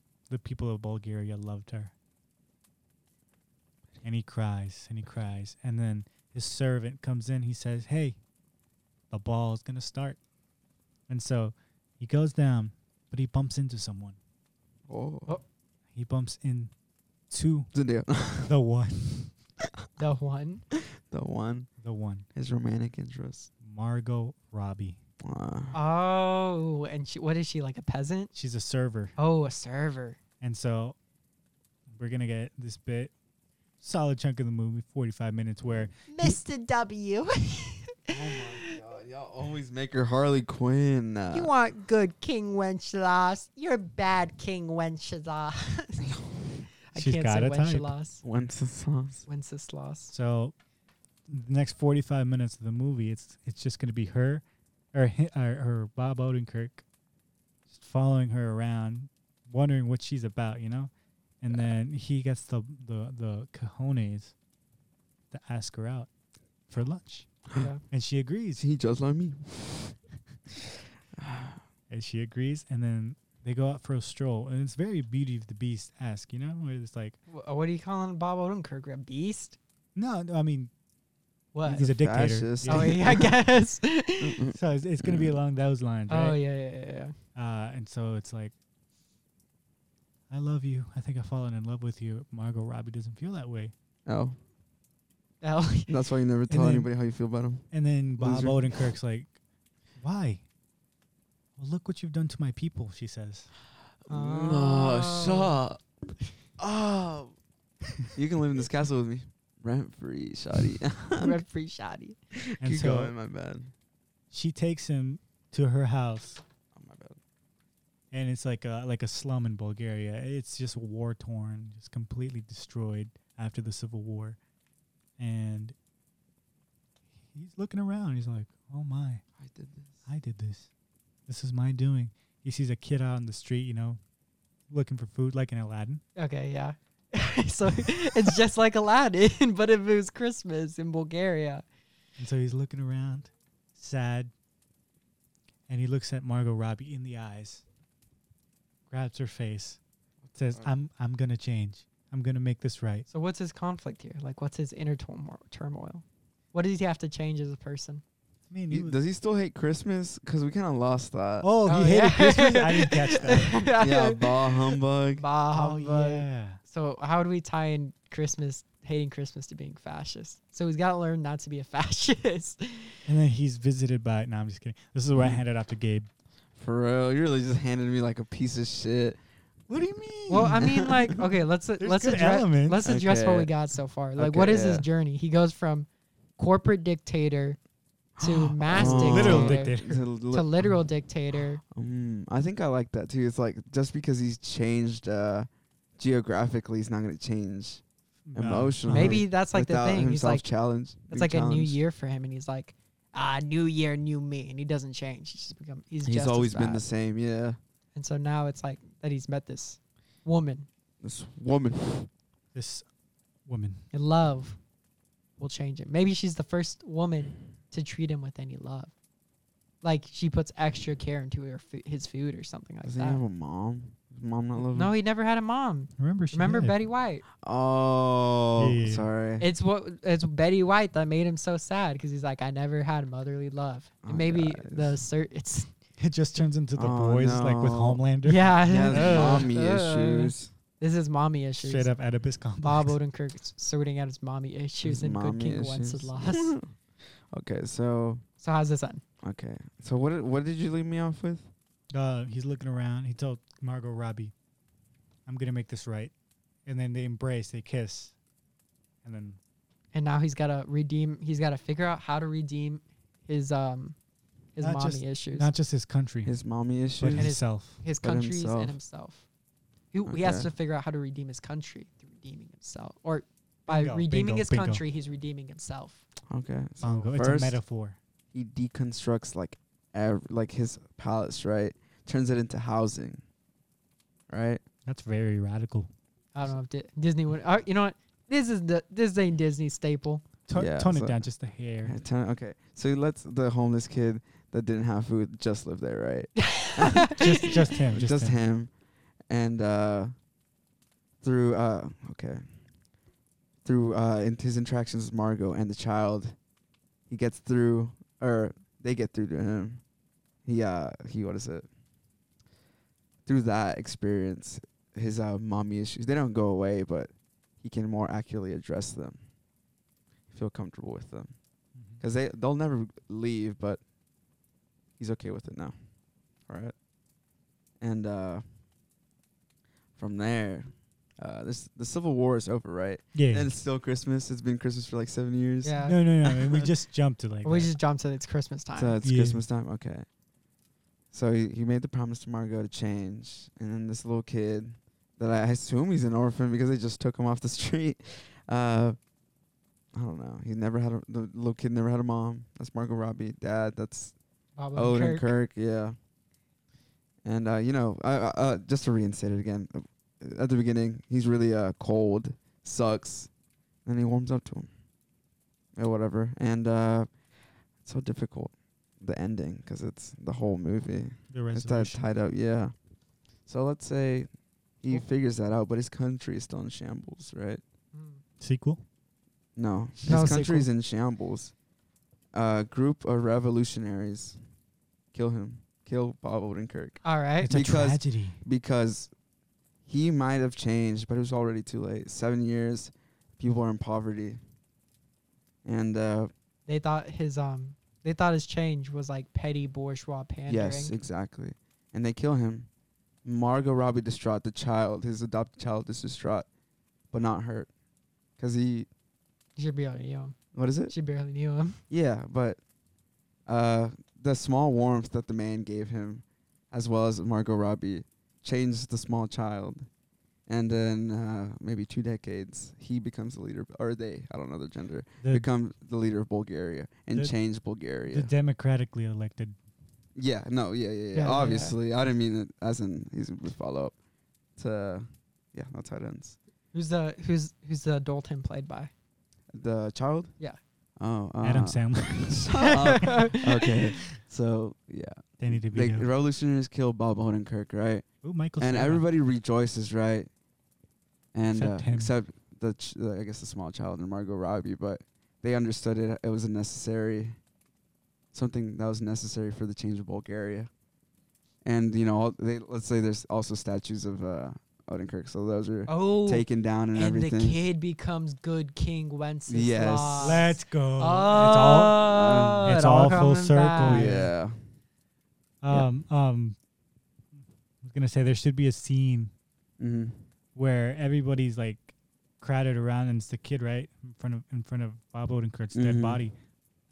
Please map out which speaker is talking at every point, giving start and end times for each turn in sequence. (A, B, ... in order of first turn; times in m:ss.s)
0:00.3-0:01.9 A
0:04.0-0:08.2 A
0:09.1-0:10.2 A
0:11.1-0:14.2 A
0:14.9-0:15.4 B
0:16.0-0:16.7 A
0:17.3-0:17.7 A
0:17.7-0:18.5 B
0:18.4-0:19.3 A
0:20.0-0:20.6 C
0:20.8-0:21.7 B
0:21.8-0:22.2 A
0:22.4-0:23.5 B
0:23.6-0:25.0 A
0:25.2-0:25.8 B
0:25.7-0:28.3 C
0:28.3-0:29.1 A
0:29.2-0:30.2 C
0:30.4-0:31.0 A
0:31.9-0:33.1 A
0:33.8-0:36.4 A
0:36.1-0:38.8 C
0:38.1-0:41.5 B
0:41.3-0:46.2 C
0:46.9-0:48.2 C
0:47.0-0:47.9 A
0:48.2-0:49.2 B
0:49.2-0:50.1 C
0:50.1-0:50.5 A
0:51.3-0:56.8 A
0:57.7-1:04.3 A
1:05.3-1:06.1 A
1:06.7-1:08.6 A
1:07.6-1:07.8 C
1:08.6-1:10.0 B
1:10.5-1:11.6 B
1:11.9-1:17.2 A
1:17.3-1:19.6 C
1:20.0-1:20.7 A
1:21.5-1:21.9 C
1:21.6-1:23.1 A
1:21.7-1:23.4 B
1:22.7-1:24.4 C
1:24.2-1:25.4 B
1:24.5-1:26.4 A
1:26.1-1:27.1 C
1:27.4-1:28.5 A
1:30.3-1:33.7 A
1:34.0-1:34.4 B
1:35.4-1:35.9 C
1:35.9-1:37.6 B
1:36.5-1:36.9 A
1:37.7-1:39.4 A
1:38.2-1:38.8 B
1:40.0-1:40.4 A
1:41.6-1:43.5 A
1:44.0-1:45.8 B
1:44.1-1:45.6 C
1:46.6-1:47.4 B
1:48.1-1:51.4 B
1:51.2-1:52.2 C
1:52.4-1:53.7 B
1:52.6-1:53.1 A
1:54.3-1:56.4 A
1:56.7-1:57.2 B
1:58.1-2:04.4 A
2:05.2-2:05.8 A
2:07.3-2:09.2 A
2:09.4-2:10.0 B
2:10.1-2:10.7 A
2:11.3-2:14.0 A
2:14.7-2:16.0 A
2:16.2-2:21.6 C
2:22.2-2:24.3 A
2:25.7-2:27.6 A
2:28.9-2:29.8 A
2:30.3-2:30.7 B
2:30.4-2:33.1 A
2:33.1-2:38.0 C
2:38.5-2:39.0 A
2:38.7-2:41.5 B
2:41.4-2:43.6 A
2:41.6-2:53.0 C
2:43.8-2:45.2 B
2:45.5-2:46.6 A
2:53.1-2:56.1 A
2:55.1-2:55.4 B
2:56.6-2:59.2 B
2:59.7-3:00.7 A
3:00.3-3:07.6 C
3:00.4-3:01.2 B
3:01.8-3:02.8 A
3:02.8-3:03.5 B
3:04.2-3:04.9 B
3:08.2-3:09.8 C
3:08.2-3:10.7 B
3:08.6-3:10.0 A
3:10.3-3:11.6 C
3:11.6-3:17.8 B
3:18.3-3:19.2 A
3:18.4-3:21.8 B
3:18.9-3:20.5 C
3:21.1-3:26.8 C
3:26.0-3:27.6 B
3:28.0-3:30.7 C
3:31.0-3:32.1 B
3:32.5-3:32.8 A
3:33.5-3:33.8 A
3:33.9-3:34.6 C
3:35.4-3:38.9 C
3:39.8-3:43.2 C
3:42.8-3:44.9 B
3:44.6-3:47.2 C
3:46.0-3:46.7 A
3:47.4-3:49.5 B
3:48.6-3:49.1 A
3:49.4-3:55.7 C
3:54.0-3:55.0 B
3:56.0-3:59.5 A
3:56.8-3:58.0 B
3:58.2-4:01.9 C
3:58.6-4:00.5 B
4:01.6-4:03.0 A
4:02.6-4:06.6 C
4:04.8-4:06.7 B
4:07.3-4:08.2 B
4:08.4-4:09.0 C
4:09.2-4:11.5 B
4:11.9-4:14.3 A
4:15.3-4:16.1 A
4:16.6-4:18.1 A
4:19.0-4:19.4 A
4:19.9-4:24.0 C
4:24.5-4:25.5 C
4:24.6-4:26.3 A
4:26.2-4:27.4 B
4:27.0-4:27.8 A
4:27.2-4:29.2 C
4:28.0-4:28.8 B
4:29.9-4:36.0 C
4:30.0-4:30.5 B
4:33.7-4:34.8 A
4:36.3-4:37.6 B
4:36.8-4:38.0 A
4:38.3-4:43.2 B
4:44.3-4:44.6 B
4:44.9-4:45.9 A
4:46.4-4:50.2 C
4:50.5-4:52.0 A
4:50.5-4:51.2 B
4:51.8-4:58.7 B
4:56.4-4:57.5 C
4:57.1-4:58.4 A
4:59.3-5:00.1 B
5:01.2-5:02.4 B
5:03.6-5:06.4 B
5:07.1-5:09.8 B
5:10.4-5:11.7 B
5:13.2-5:19.2 B
5:20.3-5:21.3 B
5:22.0-5:23.8 B
5:25.0-5:25.8 B
5:26.5-5:26.7 B
5:27.8-5:28.4 B
5:30.0-5:36.7 B
5:33.1-5:33.5 A
5:35.6-5:36.0 C
5:35.8-5:37.7 A
5:37.4-5:39.0 C
5:38.8-5:40.0 B
5:39.0-5:39.4 A
5:41.1-5:49.0 B
5:49.9-5:54.1 B
5:54.6-5:55.3 C
5:54.8-5:56.0 B
5:57.2-6:03.3 B
6:03.9-6:04.7 B
6:05.8-6:07.1 B
6:07.8-6:12.7 B
6:11.3-6:12.0 A
6:13.5-6:14.3 B
6:14.8-6:17.6 B
6:17.9-6:18.2 C
6:18.4-6:18.8 A
6:19.6-6:21.5 B
6:20.1-6:20.5 A
6:20.1-6:20.6 C
6:22.3-6:24.4 B
6:25.1-6:29.1 B
6:27.0-6:27.5 C
6:27.4-6:28.4 A
6:29.9-6:34.4 B
6:35.6-6:36.3 B
6:36.7-6:41.0 C
6:40.5-6:42.7 B
6:43.2-6:46.5 B
6:47.1-6:47.7 B
6:48.4-6:48.9 B
6:49.6-6:50.4 C
6:50.5-6:50.9 B
6:50.9-6:51.8 C
6:51.9-6:52.6 B
6:53.5-6:59.9 B
7:00.5-7:08.3 B
7:08.1-7:09.6 A
7:10.2-7:14.0 B
7:11.1-7:11.8 C
7:14.6-7:16.4 B
7:16.7-7:18.9 C
7:19.5-7:20.3 B
7:21.0-7:28.0 B
7:21.4-7:23.2 A
7:22.6-7:23.7 C
7:25.4-7:26.1 A
7:28.2-7:29.0 A
7:28.6-7:30.3 B
7:31.3-7:37.4 B
7:31.5-7:32.1 A
7:38.3-7:40.7 B
7:41.6-7:47.6 B
7:45.9-7:54.1 C
7:49.5-7:50.5 B
7:50.2-7:52.0 A
7:52.0-7:52.6 B
7:52.6-7:54.3 A
7:53.8-7:54.6 B
7:55.6-7:56.6 A
7:57.8-7:59.3 A
7:59.8-8:00.2 B
8:00.5-8:06.4 A
8:05.7-8:06.2 B